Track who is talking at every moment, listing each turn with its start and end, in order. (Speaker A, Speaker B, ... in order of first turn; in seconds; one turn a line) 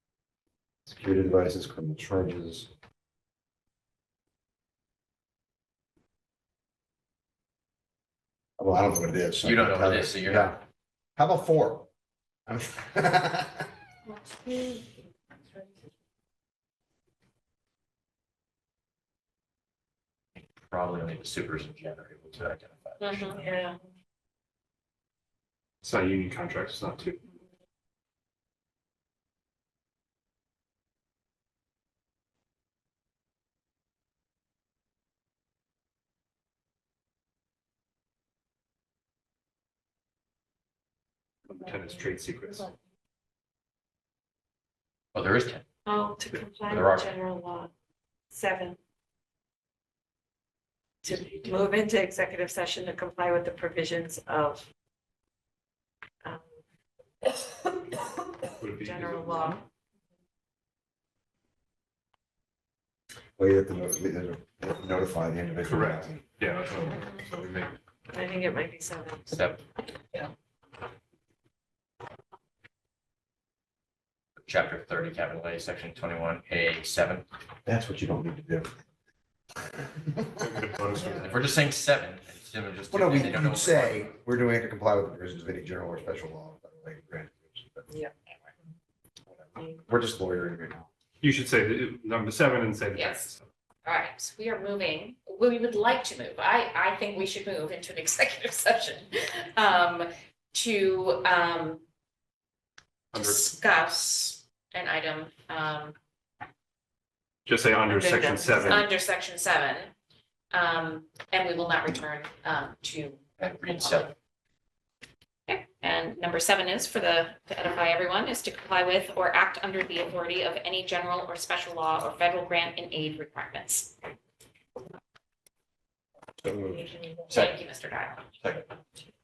Speaker A: 0.9-2.7
Speaker A: 8.6-10.6
Speaker B: 9.4-10.6
Speaker A: 11.2-11.9
Speaker A: 12.5-13.7
Speaker C: 14.1-14.9
Speaker B: 20.4-23.5
Speaker D: 23.0-23.4
Speaker C: 23.4-23.8
Speaker E: 25.8-27.2
Speaker E: 41.5-42.7
Speaker B: 45.1-45.6
Speaker C: 45.9-47.7
Speaker B: 46.7-47.1
Speaker C: 48.3-48.8
Speaker B: 51.0-51.7
Speaker C: 51.0-54.6
Speaker C: 56.2-56.5
Speaker C: 57.2-59.6
Speaker E: 58.6-59.6
Speaker A: 63.4-66.2
Speaker E: 65.6-67.7
Speaker C: 66.7-67.2
Speaker C: 68.1-69.3
Speaker B: 69.3-69.6
Speaker B: 74.4-77.2
Speaker A: 77.6-78.7
Speaker A: 79.6-81.3
Speaker E: 80.4-81.4
Speaker B: 81.3-84.1
Speaker A: 82.9-87.9
Speaker A: 89.4-90.9
Speaker E: 91.2-93.4
Speaker D: 92.9-93.3
Speaker D: 93.8-101.8
Speaker E: 103.1-103.5
Speaker D: 103.1-105.9
Speaker E: 107.5-108.9
Speaker C: 107.8-108.9
Speaker D: 108.7-109.9
Speaker D: 110.5-114.1
Speaker B: 113.4-114.1
Speaker D: 115.5-123.9
Speaker A: 126.4-127.0
Speaker B: 127.3-127.5
Speaker D: 127.3-128.3